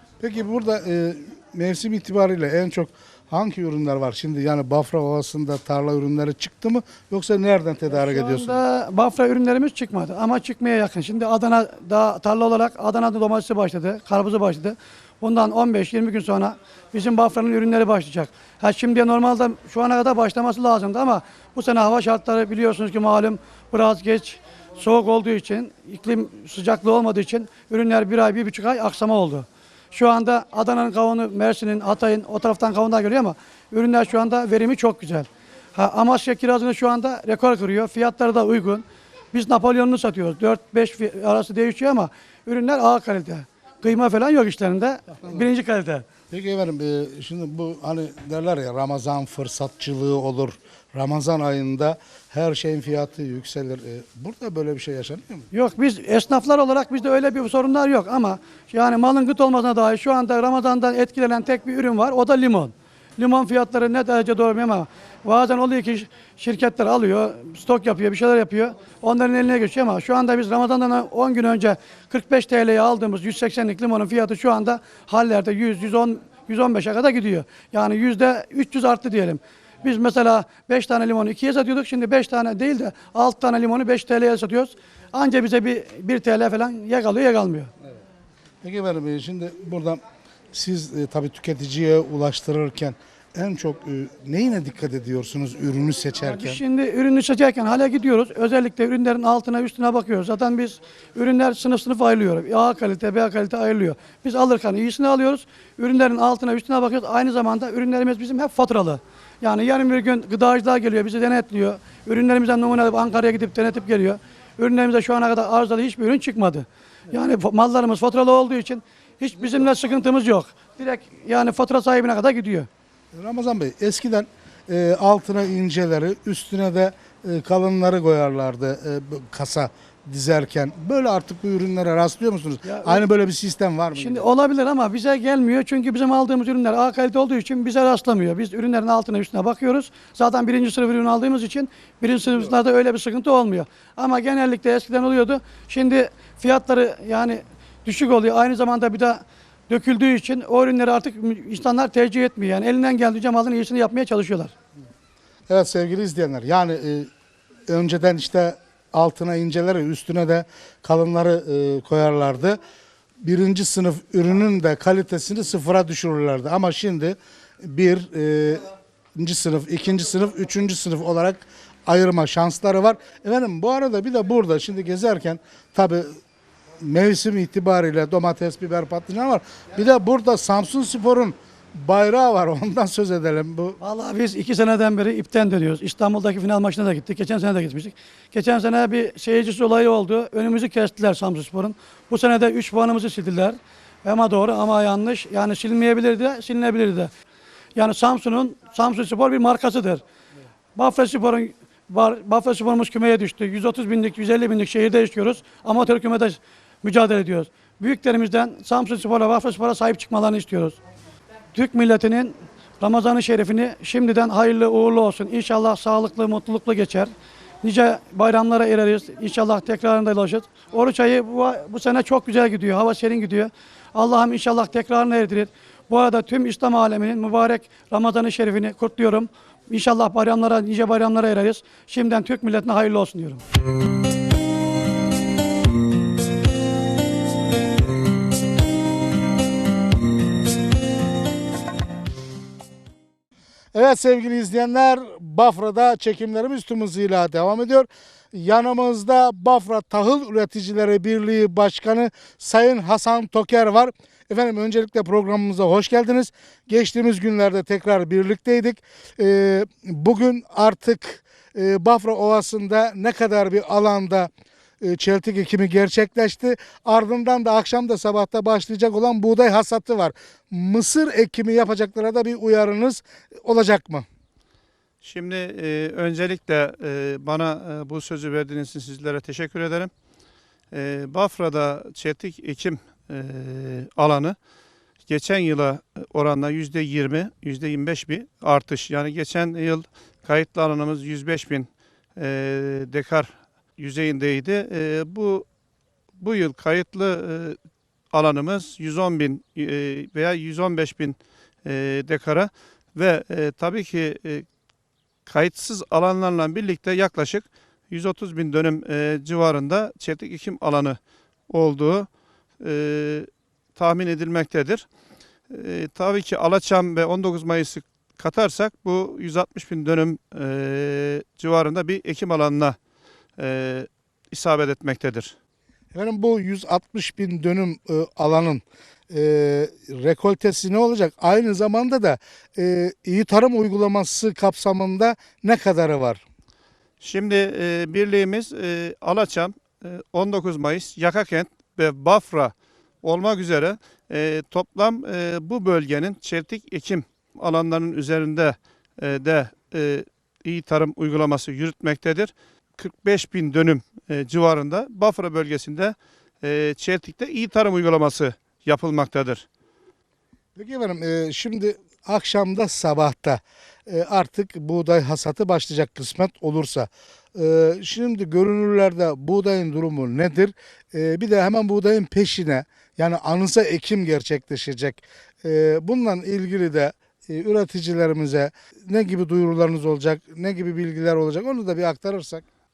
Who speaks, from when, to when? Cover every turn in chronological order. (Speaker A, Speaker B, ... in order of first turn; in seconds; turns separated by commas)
Speaker A: 0.2-8.6, Speaker B: 7.9-46.1, Speaker A: 46.3-55.5, Speaker B: 55.5-87.7, Speaker A: 88.6-90.0, Speaker A: 90.5-96.6, Speaker B: 96.3-122.7, Speaker A: 123.1-134.3, Speaker B: 132.7-133.0, Speaker B: 133.9-154.5, Speaker A: 155.5-157.1, Speaker A: 157.7-162.6, Speaker A: 163.2-176.2, Speaker A: 176.8-183.8, Speaker B: 183.8-197.1, Speaker B: 197.8-200.0, Speaker B: 200.8-210.8, Speaker B: 211.5-233.4, Speaker A: 243.7-264.3, Speaker A: 264.8-274.1, Speaker C: 275.0-279.9, Speaker C: 280.7-284.4, Speaker C: 285.1-295.4, Speaker C: 296.2-297.6, Speaker C: 298.1-304.5, Speaker C: 305.3-311.0, Speaker C: 311.5-312.1, Speaker C: 312.6-314.9, Speaker C: 315.5-322.8, Speaker C: 323.4-325.4, Speaker A: 325.9-336.2, Speaker C: 337.0-359.5, Speaker A: 360.6-382.4